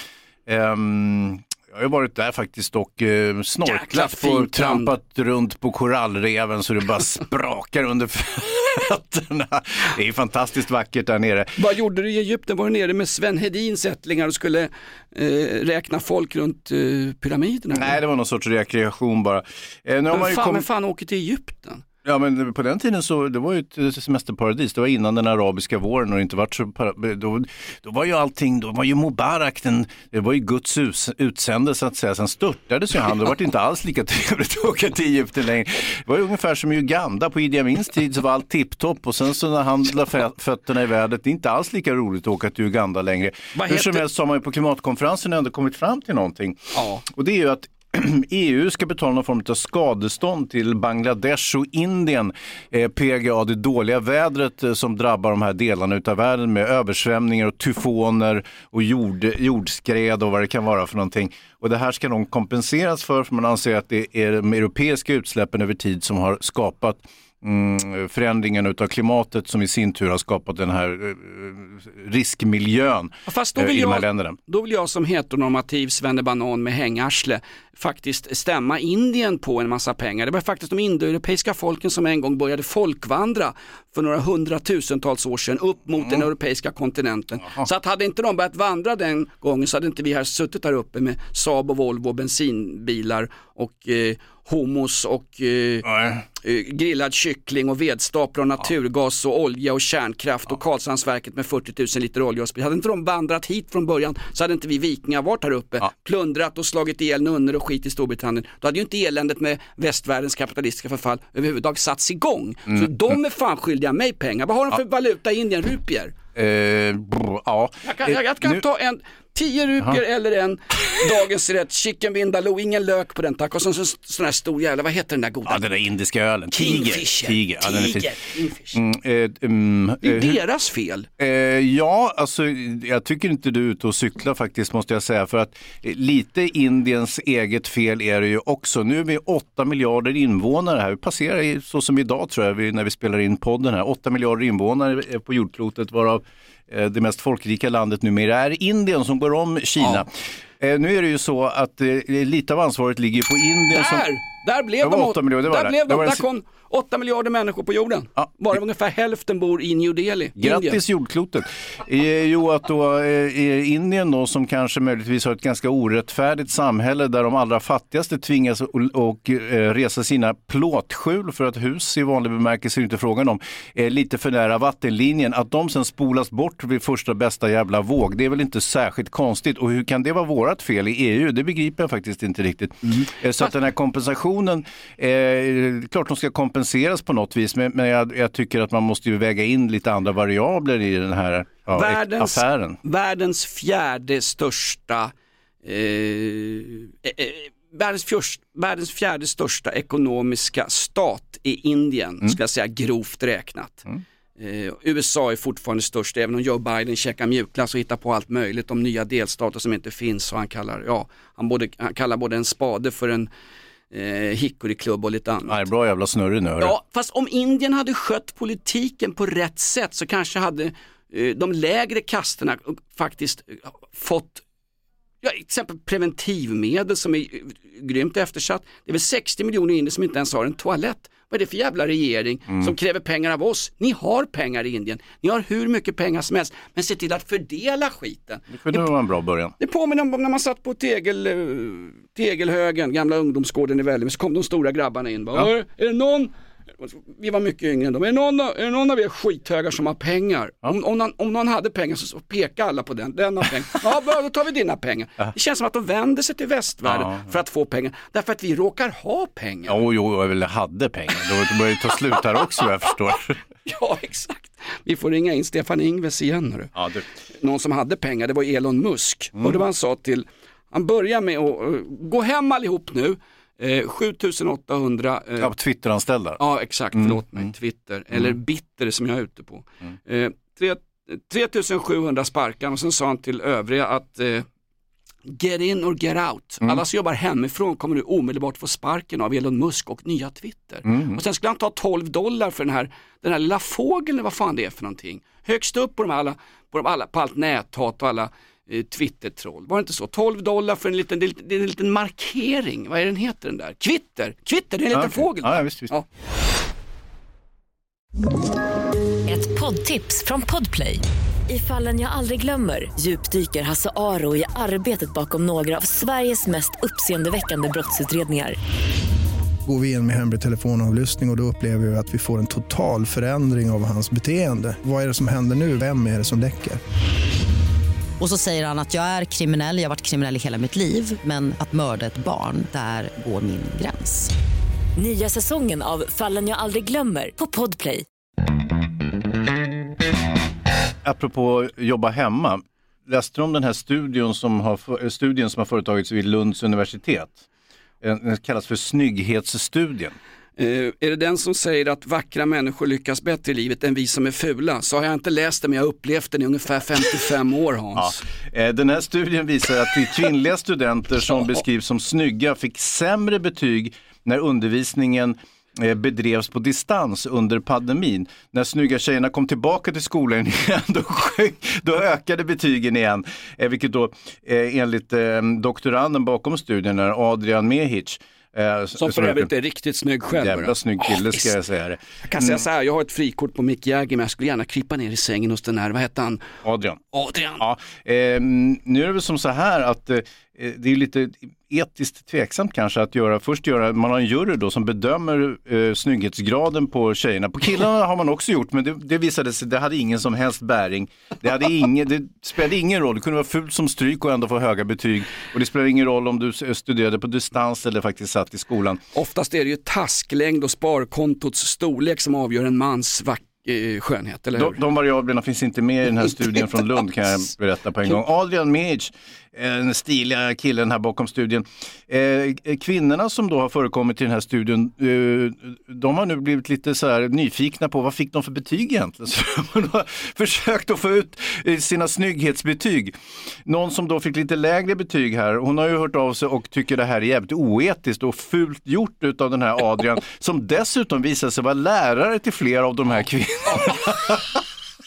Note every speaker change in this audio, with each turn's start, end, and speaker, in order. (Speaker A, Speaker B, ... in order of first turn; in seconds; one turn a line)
Speaker A: 0.5-11.5
Speaker B: 3.6-4.9
Speaker B: 11.6-18.0
Speaker A: 17.7-20.7
Speaker B: 20.1-21.9
Speaker A: 22.1-74.4
Speaker B: 43.5-44.1
Speaker B: 46.8-47.0
Speaker B: 73.3-116.2
Speaker A: 95.8-96.2
Speaker A: 116.3-118.6
Speaker B: 117.8-125.6
Speaker A: 125.5-128.2
Speaker B: 126.5-128.8
Speaker A: 128.7-130.4
Speaker B: 130.0-131.1
Speaker A: 131.2-154.1
Speaker B: 153.7-160.8
Speaker A: 154.8-156.3
Speaker A: 158.2-158.6
Speaker A: 160.4-192.8
Speaker B: 191.7-195.1
Speaker B: 195.6-203.9
Speaker B: 204.4-213.3
Speaker B: 213.9-215.6
Speaker A: 215.5-216.8
Speaker B: 216.6-224.4
Speaker B: 225.2-238.9
Speaker A: 238.5-239.5
Speaker B: 239.6-259.8
Speaker A: 256.9-257.4
Speaker A: 259.7-263.4
Speaker B: 262.1-262.6
Speaker B: 263.6-266.7
Speaker A: 266.8-267.1
Speaker B: 267.3-275.5
Speaker A: 275.4-276.4
Speaker B: 276.4-284.5
Speaker A: 276.9-277.4
Speaker B: 285.3-306.1
Speaker A: 290.9-291.2
Speaker A: 304.9-305.9
Speaker C: 309.3-318.6
Speaker D: 319.7-326.8
Speaker E: 328.2-334.3
Speaker C: 335.0-338.1
Speaker A: 341.0-347.4
Speaker A: 348.0-350.2
Speaker B: 350.6-358.2
Speaker A: 358.0-379.5
Speaker B: 379.0-381.6
Speaker A: 380.3-382.6
Speaker B: 382.2-386.4
Speaker A: 386.6-387.0
Speaker B: 387.1-387.6
Speaker A: 387.6-409.0
Speaker B: 409.1-414.8
Speaker A: 414.6-433.1
Speaker A: 433.7-444.6